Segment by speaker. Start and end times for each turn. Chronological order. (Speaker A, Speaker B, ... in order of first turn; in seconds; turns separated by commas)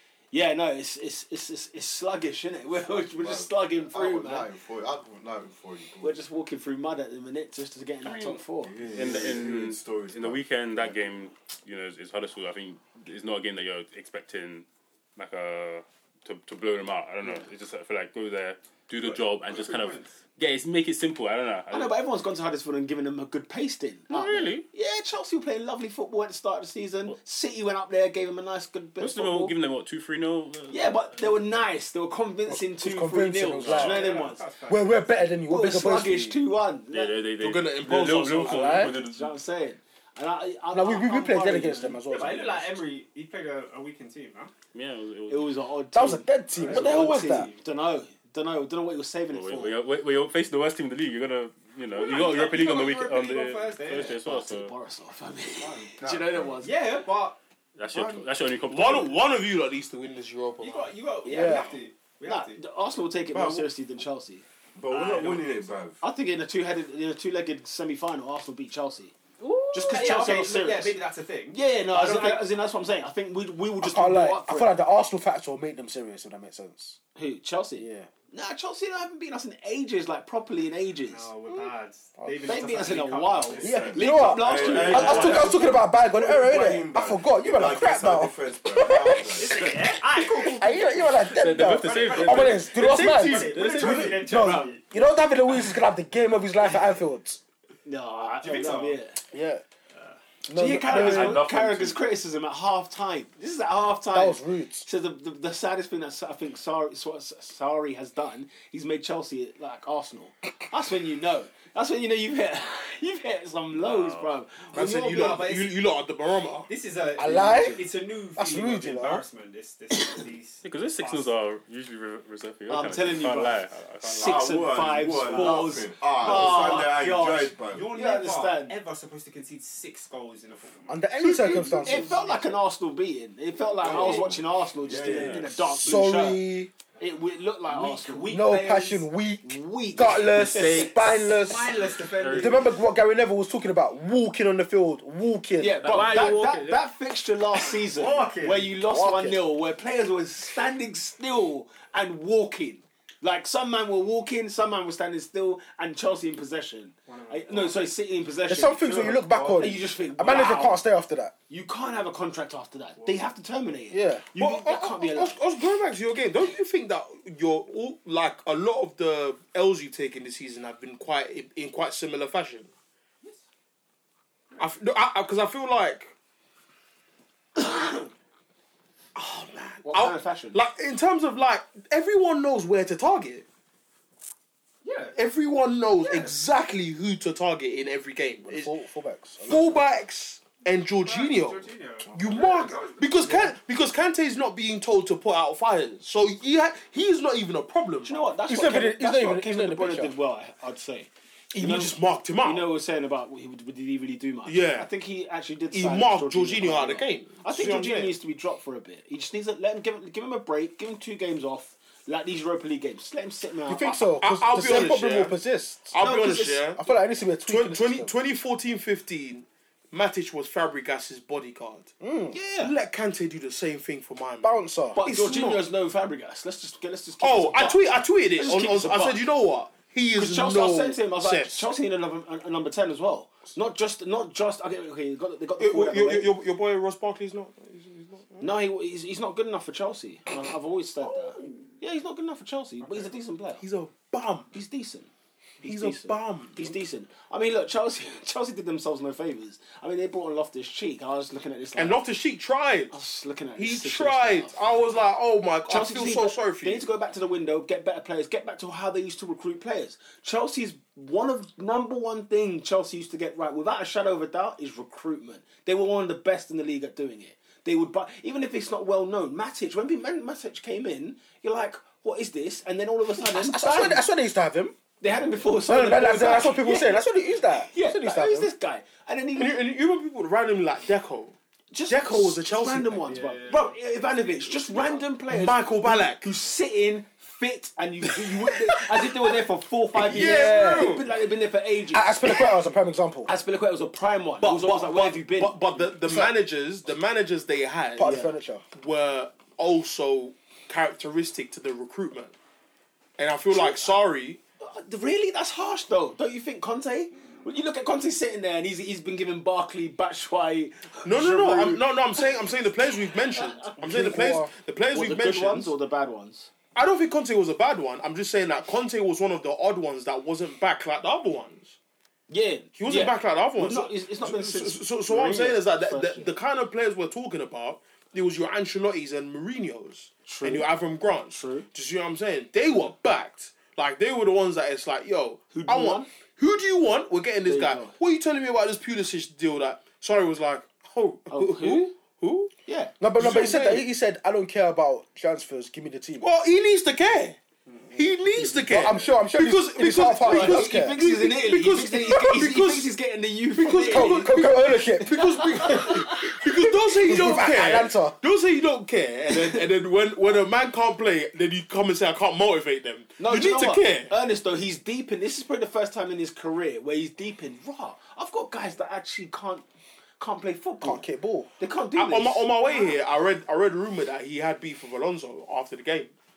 Speaker A: 0.3-4.5, Speaker B: 3.1-6.2, Speaker A: 6.0-8.7, Speaker C: 8.0-21.9, Speaker B: 8.6-11.0, Speaker D: 19.0-20.1, Speaker A: 21.7-29.6, Speaker C: 24.1-24.7, Speaker C: 29.0-31.4, Speaker A: 30.7-34.5, Speaker E: 32.5-36.4, Speaker C: 33.6-34.2, Speaker D: 33.6-35.3, Speaker A: 35.5-37.2, Speaker C: 36.9-39.3, Speaker F: 37.4-38.9, Speaker E: 38.4-39.0, Speaker A: 38.9-42.0, Speaker E: 40.7-42.8, Speaker D: 42.1-44.5, Speaker C: 44.7-45.5, Speaker A: 45.3-49.8, Speaker E: 45.9-47.5, Speaker D: 46.6-47.6, Speaker C: 49.3-54.7, Speaker D: 51.9-54.2, Speaker A: 54.1-56.8, Speaker B: 55.5-56.7, Speaker D: 56.6-57.4, Speaker C: 57.8-59.2, Speaker B: 57.9-58.3, Speaker F: 58.7-60.9, Speaker D: 60.6-62.6, Speaker E: 61.3-61.8, Speaker A: 61.3-61.7, Speaker A: 62.2-64.5, Speaker B: 63.3-63.7, Speaker B: 64.8-66.0, Speaker D: 64.9-65.8, Speaker A: 66.0-71.0, Speaker D: 69.4-72.5, Speaker A: 71.5-74.7, Speaker E: 73.8-77.0, Speaker A: 77.2-81.3, Speaker E: 77.8-78.1, Speaker D: 81.1-85.6, Speaker A: 82.5-85.5, Speaker B: 83.6-89.7, Speaker E: 83.6-97.4, Speaker C: 84.8-85.4, Speaker D: 89.2-94.8, Speaker C: 91.3-94.5, Speaker F: 92.7-94.2, Speaker A: 97.8-99.2, Speaker D: 98.4-99.0, Speaker E: 99.3-99.6, Speaker D: 99.9-100.2, Speaker E: 100.5-101.4, Speaker A: 100.5-115.5, Speaker C: 100.8-102.0, Speaker E: 104.1-104.9, Speaker C: 113.7-114.3, Speaker F: 114.7-116.7, Speaker D: 115.1-115.7, Speaker D: 116.7-121.3, Speaker E: 117.2-119.2, Speaker C: 120.6-124.7, Speaker A: 122.7-128.8, Speaker B: 124.2-127.9, Speaker D: 125.1-127.0, Speaker D: 127.6-132.5, Speaker E: 130.9-132.2, Speaker A: 131.2-136.5, Speaker D: 133.8-134.4, Speaker B: 133.8-136.0, Speaker D: 135.1-135.4, Speaker E: 135.8-136.7, Speaker A: 137.0-138.4, Speaker D: 137.7-139.1, Speaker E: 138.3-141.8, Speaker A: 139.4-141.0, Speaker D: 141.2-142.8, Speaker C: 142.2-142.6, Speaker E: 142.3-146.0, Speaker A: 145.6-160.8, Speaker C: 145.8-146.9, Speaker B: 148.0-148.7, Speaker D: 148.0-148.4, Speaker E: 148.8-149.4, Speaker D: 157.1-157.9, Speaker E: 158.5-161.3, Speaker D: 158.9-159.8, Speaker A: 161.5-165.4, Speaker D: 163.0-163.3, Speaker E: 163.9-164.3, Speaker F: 164.4-172.7, Speaker F: 174.6-176.1, Speaker A: 177.6-178.1, Speaker F: 179.2-183.4, Speaker A: 179.8-180.6, Speaker D: 184.8-185.2, Speaker F: 185.2-188.7, Speaker D: 186.0-186.3, Speaker E: 188.4-189.9, Speaker F: 189.5-198.2, Speaker D: 191.0-193.5, Speaker A: 198.0-214.1, Speaker E: 198.5-200.2, Speaker F: 201.5-202.7, Speaker F: 204.5-204.9, Speaker F: 205.7-208.2, Speaker E: 213.7-216.0, Speaker F: 214.2-215.3, Speaker F: 215.9-216.8, Speaker A: 216.0-216.6, Speaker E: 216.8-218.1, Speaker F: 217.5-221.9, Speaker E: 222.0-222.4, Speaker A: 222.3-222.7, Speaker F: 222.6-225.7, Speaker E: 224.4-225.0, Speaker A: 224.9-229.2, Speaker F: 227.2-231.6, Speaker A: 230.2-236.3, Speaker F: 235.6-238.5, Speaker A: 238.4-243.6, Speaker F: 241.0-241.5, Speaker F: 243.6-244.5, Speaker A: 244.5-245.1, Speaker A: 245.6-252.0, Speaker F: 245.6-246.8, Speaker F: 251.8-253.0, Speaker A: 252.9-254.6, Speaker F: 253.6-256.9, Speaker A: 255.7-274.0, Speaker E: 273.2-274.8, Speaker A: 275.0-279.6, Speaker E: 275.7-278.5, Speaker F: 279.4-281.4, Speaker A: 281.7-292.6, Speaker F: 281.9-283.1, Speaker D: 283.1-285.0, Speaker F: 285.3-286.2, Speaker F: 290.1-291.0, Speaker E: 290.1-291.0, Speaker E: 291.8-293.3, Speaker A: 293.3-295.6, Speaker F: 294.4-298.2, Speaker E: 298.0-298.6, Speaker A: 298.0-298.3, Speaker F: 298.7-302.4, Speaker F: 303.2-304.4, Speaker A: 303.5-304.0, Speaker A: 304.6-311.8, Speaker F: 311.0-315.7, Speaker A: 313.3-313.8, Speaker E: 313.8-314.5, Speaker A: 314.9-316.5, Speaker F: 316.8-321.8, Speaker A: 322.3-326.3, Speaker F: 322.8-342.5, Speaker A: 330.3-330.7, Speaker A: 331.3-331.7, Speaker A: 335.5-336.1, Speaker A: 337.5-337.9, Speaker A: 341.3-341.9, Speaker A: 342.7-342.9, Speaker E: 343.0-346.3, Speaker F: 343.2-343.8, Speaker F: 346.2-347.4, Speaker F: 347.9-352.9, Speaker E: 348.6-351.0, Speaker A: 350.2-356.4, Speaker F: 353.6-364.1, Speaker E: 353.7-358.2, Speaker A: 359.4-359.6, Speaker A: 363.2-369.6, Speaker A: 370.2-371.0, Speaker E: 370.8-371.5, Speaker A: 371.6-372.9, Speaker F: 372.0-376.1